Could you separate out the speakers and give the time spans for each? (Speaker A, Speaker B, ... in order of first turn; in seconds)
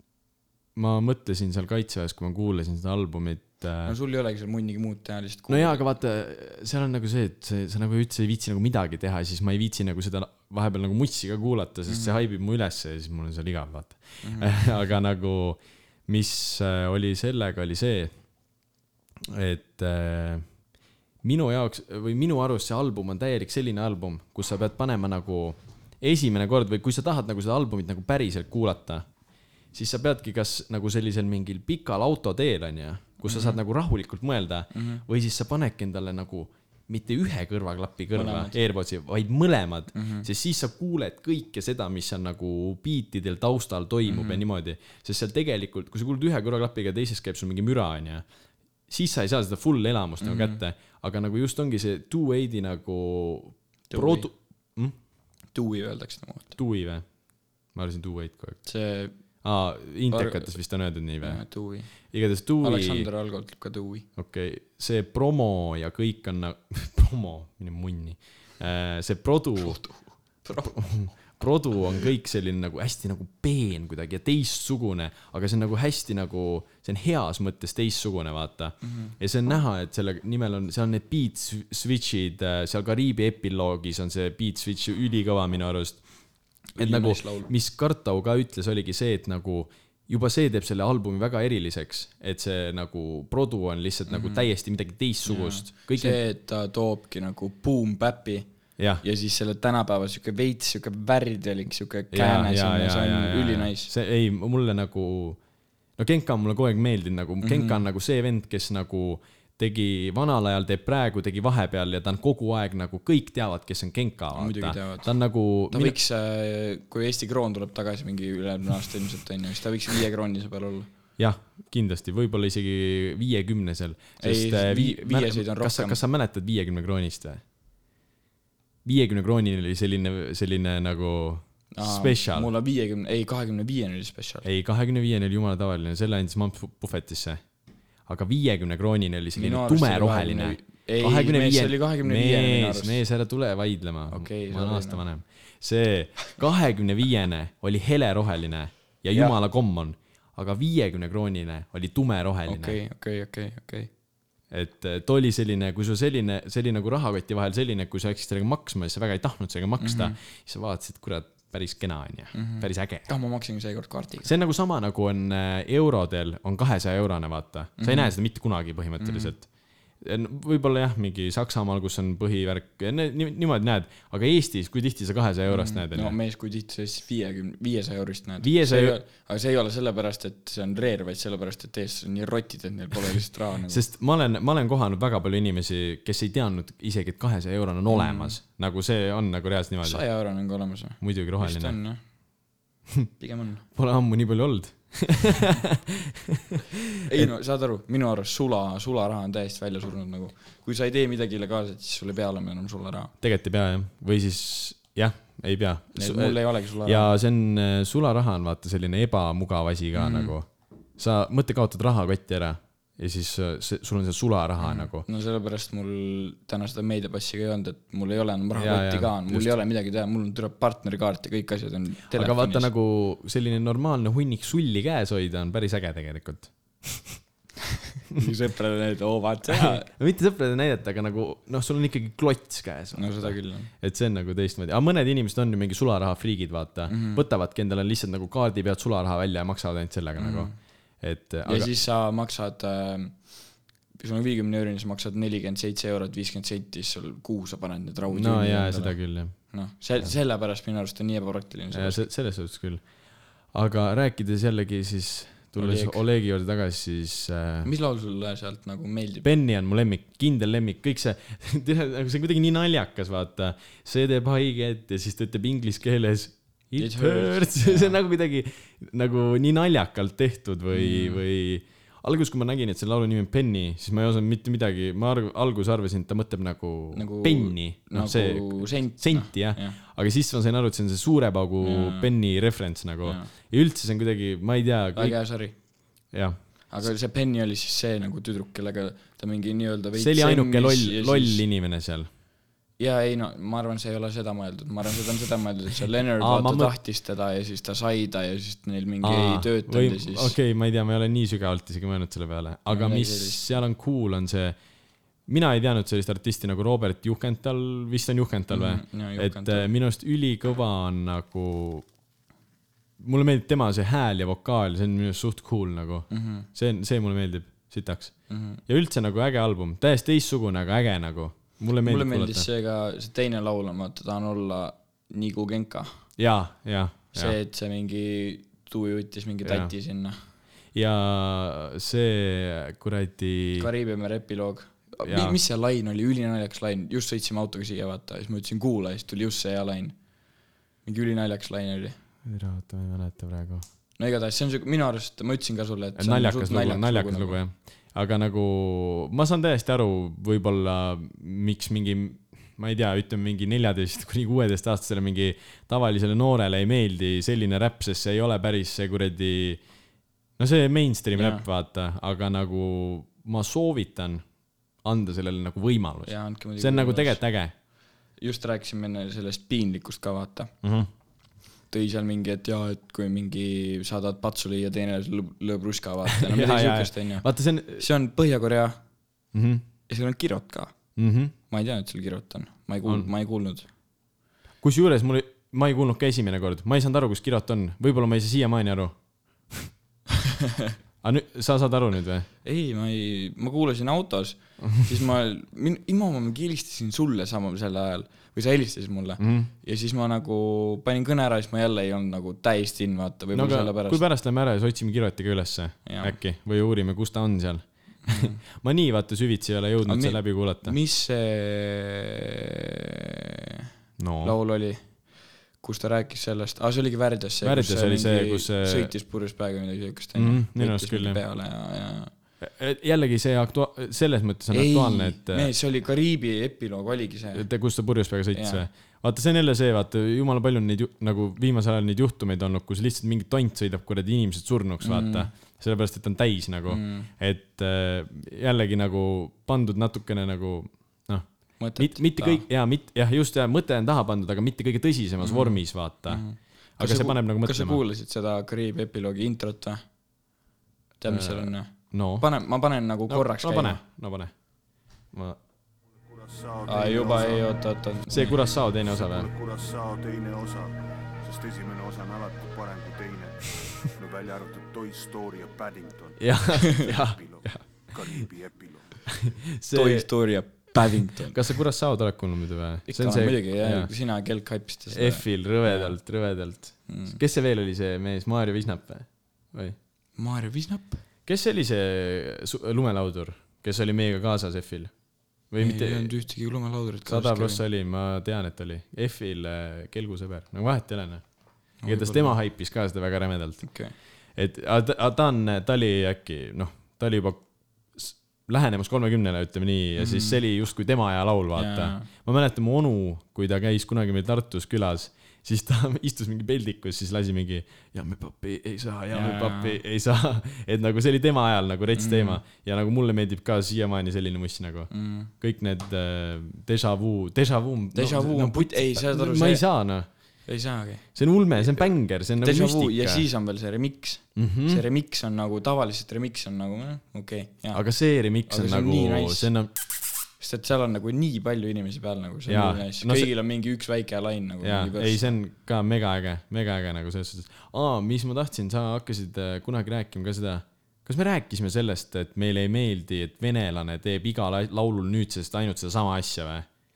Speaker A: 0.8-3.9, 5.5-18.1, 19.2-20.5, 21.2-29.0, 29.7-48.2, 48.9-54.9, 56.5-57.0, 57.7-58.6, 59.4-61.4, 62.1-63.1, 64.2-69.8, 70.6-86.0, 86.8-96.2, 98.8-99.0, 102.1-105.4, 106.0-116.0, 121.2-127.4, 128.8-132.5, 134.4-137.4, 138.1-152.8, 154.5-163.1, 164.2-169.5, 170.0-176.2, 178.4-179.0, 183.7-190.0, 191.0-191.8, 193.8-197.3, 203.2-215.1, 218.6-219.6, 222.1-227.2, 229.5-241.7, 248.1-249.3, 251.7-252.8, 253.5-257.7, 259.2-285.2, 286.1-286.4, 289.9-292.1, 296.2-296.7, 299.0-304.6, 305.2-311.8, 313.0-318.1, 318.6-322.5, 326.2-327.4, 329.4-329.7, 330.7-333.7, 335.0-335.4, 342.2-343.6, 345.9-359.6, 360.4-364.2, 364.8-367.5, 370.6-370.9, 376.1-377.9, 379.3-379.6, 381.0-381.3, 384.6-388.9, 391.0-392.3, 399.2-399.5, 403.3-410.8, 414.0-414.4, 417.4-418.9, 420.1-421.2, 422.4-425.5, 427.3-446.2, 446.8-447.8, 451.1-452.3, 453.1-454.3, 455.1-455.4, 458.1-459.3, 466.2-468.3, 469.1-473.9, 474.9-479.8, 481.2-484.9, 485.5-486.1, 487.1-491.2, 491.8-493.6, 494.4-497.4, 497.9-520.1, 521.1-523.2, 524.4-524.8, 527.7-529.7, 532.5-533.3, 534.6-546.6
Speaker B: 3.8-5.8, 11.9-12.2, 14.2-14.8, 33.2-33.6, 34.7-35.0, 38.1-38.6, 39.9-40.3, 44.0-44.4, 50.2-50.6, 53.9-54.3, 55.5-56.5, 58.6-59.1, 60.1-60.6, 61.2-61.9, 62.6-64.1, 69.6-71.0, 78.8-79.1, 86.8-87.5, 94.1-94.5, 95.2-98.5, 99.0-103.9, 107.4-107.8, 114.3-115.2, 115.7-120.9, 124.2-126.0, 131.7-134.5, 139.3-143.0, 144.1-145.0, 152.5-153.9, 159.8-160.2, 162.3-164.3, 167.8-168.1, 169.0-169.3, 175.5-183.8, 187.9-188.4, 189.8-192.0, 193.2-193.6, 197.1-203.1, 205.9-207.1, 209.9-210.3, 214.6-222.7, 228.1-229.9, 232.9-233.7, 236.9-237.2, 240.2-240.5, 241.4-243.2, 244.0-252.1, 255.6-256.0, 257.6-259.2, 266.8-268.0, 270.7-271.2, 276.9-279.8, 281.6-282.1, 283.0-283.3, 284.9-285.5, 286.7-291.4, 292.8-300.4, 302.7-303.5, 308.5-309.7, 316.1-316.5, 318.3-318.6, 321.8-325.9, 327.1-330.2, 333.6-339.9, 340.8-341.9, 344.0-347.4, 361.1-361.4, 366.1-367.2, 368.2-370.5, 371.7-378.8, 379.9-380.7, 381.5-383.7, 390.3-390.7, 392.4-404.0, 405.9-406.2, 408.0-408.4, 409.8-413.6, 414.2-414.9, 415.6-422.1, 424.5-427.5, 428.3-428.6, 434.8-435.3, 436.7-437.1, 441.6-442.4, 445.2-449.8, 451.0-453.8, 456.7-458.4, 469.7-471.6, 472.9-475.9, 476.9-477.2, 480.2-481.0, 485.6-487.6, 491.8-492.4, 493.6-493.9, 500.0-500.4, 501.5-502.1, 509.1-509.8, 511.9-512.4, 514.9-515.3, 517.9-519.7, 520.5-527.8, 528.5-529.5, 530.4-535.3
Speaker C: 456.1-457.5, 458.8-468.9